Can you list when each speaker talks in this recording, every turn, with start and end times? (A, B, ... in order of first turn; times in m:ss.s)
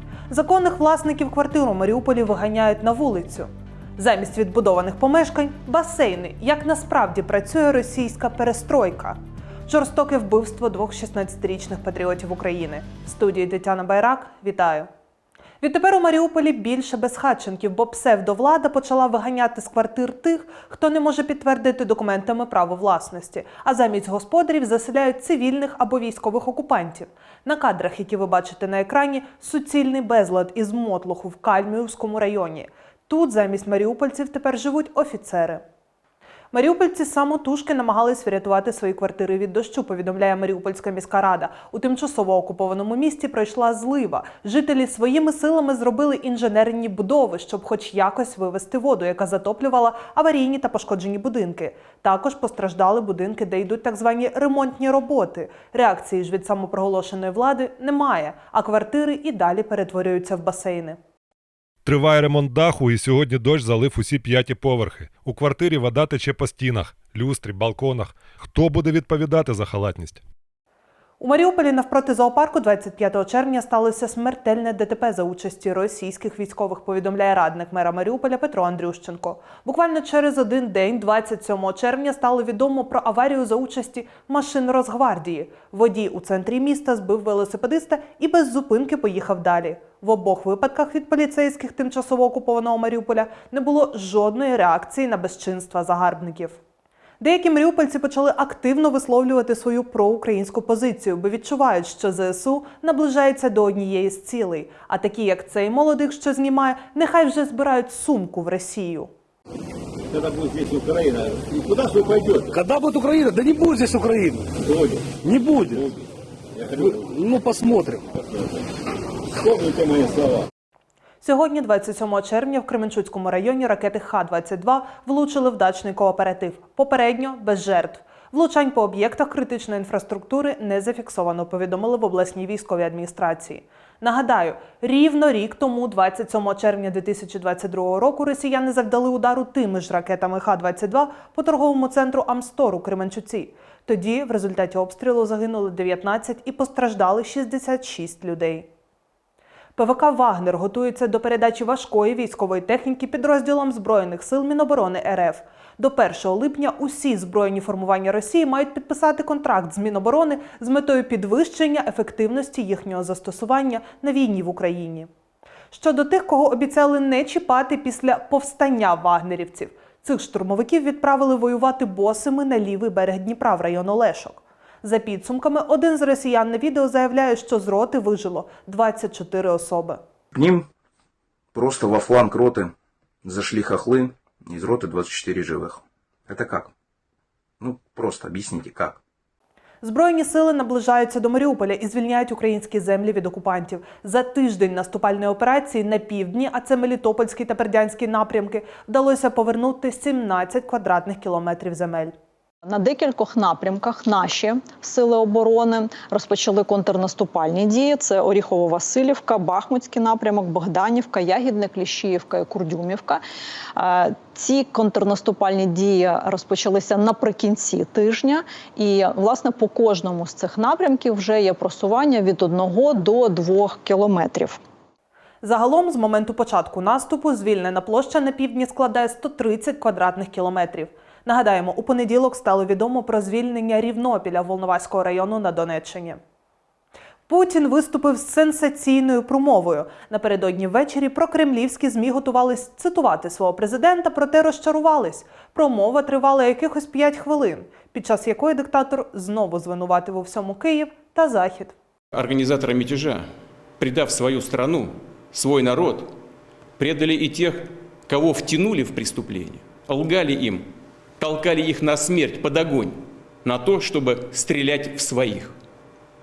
0:00.3-0:14.9 A
0:15.6-0:35.6 A
0:36.5-1:01.0 A
1:01.8-1:10.2 B
1:11.2-1:36.6 A
1:37.2-1:49.1 A
1:50.1-1:52.6 C
1:52.5-1:54.6 D
1:54.6-1:55.2 C
1:55.2-1:55.8 D
1:56.6-1:56.9 C
1:56.8-1:58.1 D
1:59.4-2:00.5 C
2:01.2-2:28.7 A
2:29.8-2:45.1 A
2:45.7-3:00.0 A
3:00.3-3:00.7 E
3:01.6-3:02.7 E
3:03.2-3:06.7 E
3:07.6-3:09.0 E
3:09.8-3:22.1 A
3:22.6-3:33.2 F
3:33.8-3:44.6 F
3:45.4-3:56.2 A
3:57.3-4:11.7 A
4:12.1-4:13.2 G
4:13.8-4:16.1 G
4:16.8-4:20.6 G
4:21.2-4:25.5 G